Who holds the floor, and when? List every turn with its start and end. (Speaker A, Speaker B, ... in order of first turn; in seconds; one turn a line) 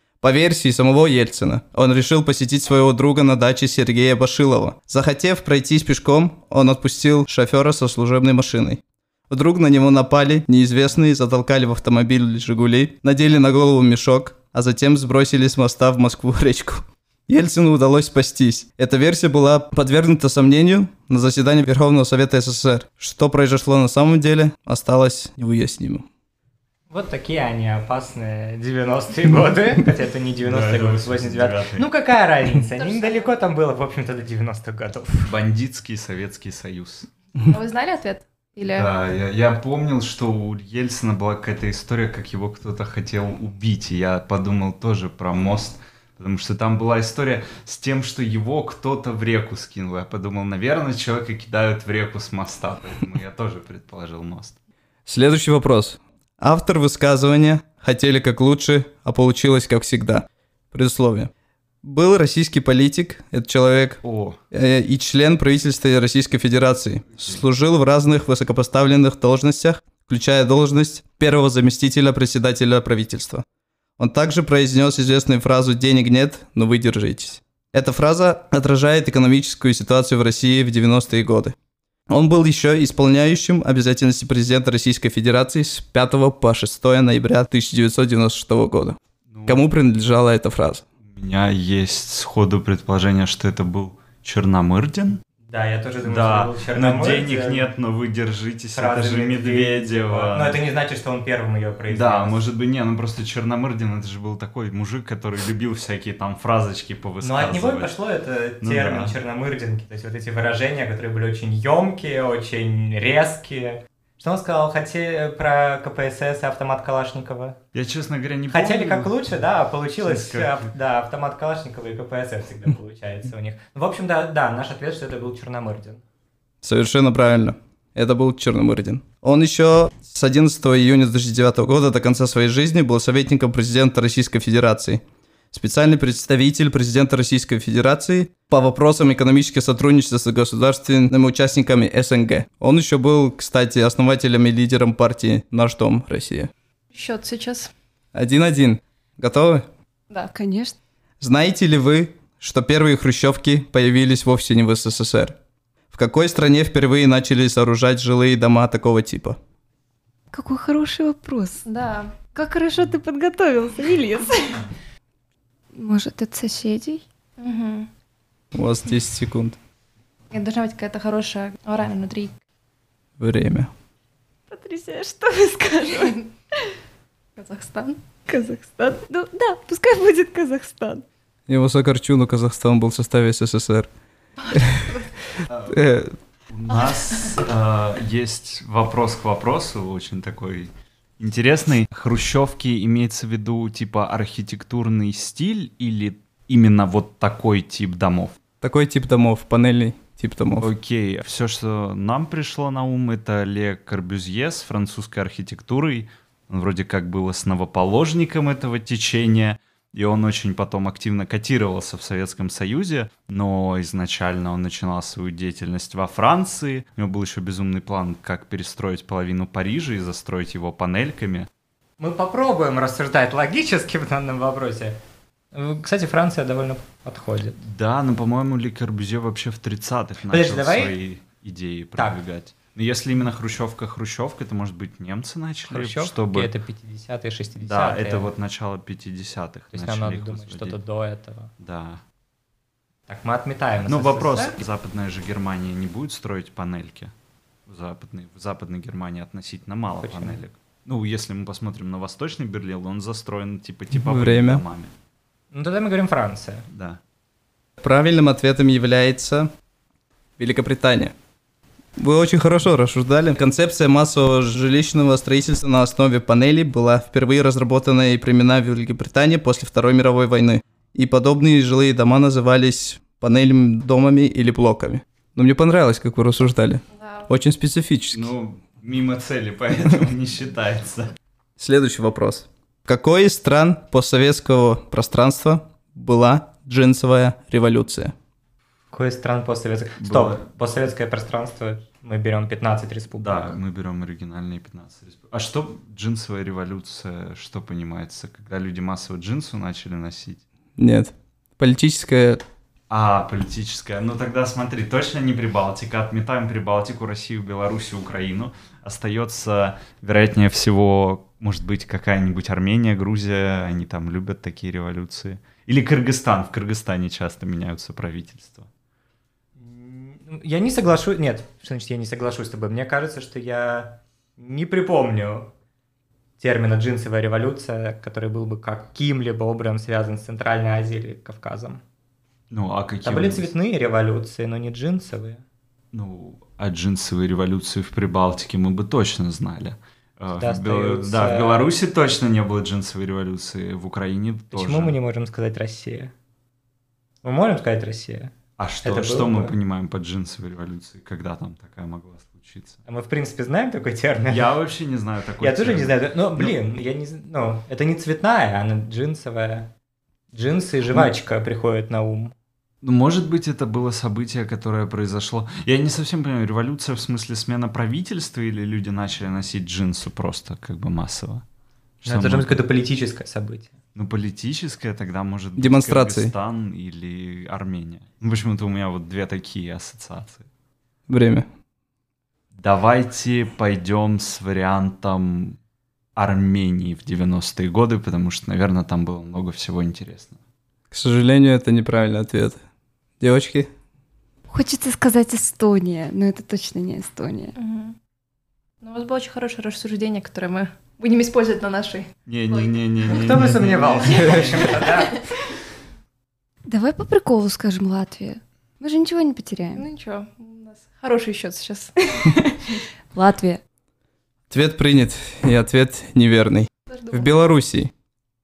Speaker A: 0.2-26.1
Speaker B: 26.9-35.3
Speaker C: 30.4-31.8
Speaker D: 32.7-33.3
Speaker C: 35.2-37.1
Speaker D: 37.5-38.9
Speaker C: 38.7-54.5
Speaker A: 55.0-61.3
Speaker A: 61.8-64.0
Speaker C: 64.0-64.4
Speaker A: 64.5-73.4
Speaker A: 74.0-81.5
Speaker A: 82.1-90.8
Speaker C: 89.3-89.6
Speaker C: 91.0-95.2
Speaker B: 95.5-97.7
Speaker C: 96.0-100.6
Speaker B: 98.7-102.4
Speaker C: 101.9-108.0
Speaker B: 107.2-117.6
Speaker C: 108.6-109.1
Speaker C: 117.7-119.2
Speaker B: 118.5-126.0
Speaker C: 120.0-120.7
Speaker A: 126.6-146.5
Speaker D: 146.9-147.7
Speaker A: 148.1-149.7
Speaker E: 150.3-150.7
Speaker A: 151.2-155.4
Speaker A: 155.9-159.4
Speaker E: 160.3-161.6
Speaker D: 161.6-162.2
Speaker E: 162.3-164.6
Speaker E: 165.8-167.0
Speaker D: 167.4-167.9
Speaker A: 168.5-169.6
Speaker D: 170.3-172.3
Speaker A: 173.2-173.7
Speaker E: 174.5-176.2
Speaker D: 177.3-178.0
Speaker E: 178.3-181.0
Speaker A: 181.5-183.9
Speaker D: 184.5-185.0
Speaker A: 184.5-184.9
Speaker C: 185.5-185.9
Speaker A: 185.7-186.1
Speaker C: 186.5-198.4
Speaker D: 186.7-187.1
Speaker A: 198.6-200.7
Speaker C: 200.6-221.5
Speaker B: 222.0-225.0
Speaker B: 225.5-227.6
Speaker C: 227.6-236.5
Speaker B: 230.3-230.9
Speaker B: 235.7-238.3
Speaker C: 237.6-240.8
Speaker B: 239.7-241.5
Speaker C: 241.6-242.0
Speaker B: 243.1-244.6
Speaker C: 243.8-247.1
Speaker C: 247.7-254.9
Speaker B: 250.0-250.4
Speaker A: 253.9-254.6
Speaker B: 255.5-256.6
Speaker C: 256.7-257.0
Speaker A: 257.8-259.5
Speaker A: 260.4-261.1
Speaker A: 262.0-278.3
Speaker D: 276.9-277.3
Speaker C: 278.1-281.1
Speaker A: 281.6-288.1
Speaker B: 288.9-293.6
Speaker C: 290.0-290.4
Speaker C: 293.2-300.4
Speaker A: 300.8-302.4
Speaker C: 302.9-318.7
Speaker B: 319.6-325.5
Speaker B: 326.4-331.8
Speaker C: 332.5-333.5
Speaker B: 333.0-335.4
Speaker C: 335.9-345.0
Speaker B: 340.3-341.7
Speaker B: 344.5-346.1
Speaker B: 347.2-349.5
Speaker C: 348.6-352.8
Speaker B: 352.9-354.4
Speaker C: 354.3-356.5
Speaker B: 355.4-359.7
Speaker B: 360.3-362.3
Speaker C: 362.8-371.4
Speaker C: 372.0-372.6
Speaker B: 372.1-373.7
Speaker C: 373.9-380.5
Speaker A: 375.6-376.3
Speaker A: 381.1-381.5
Speaker C: 382.6-385.6
Speaker C: 386.1-390.4
Speaker A: 390.9-392.6
Speaker A: 393.2-393.7
Speaker E: 394.5-397.5
Speaker D: 397.5-397.9
Speaker D: 398.8-403.3
Speaker C: 402.2-404.8
Speaker B: 403.1-405.2
Speaker D: 404.0-405.2
Speaker E: 406.7-409.8
Speaker D: 409.7-411.9
Speaker E: 412.2-412.5
Speaker E: 413.1-413.6
Speaker A: 414.5-417.9
Speaker D: 416.9-417.4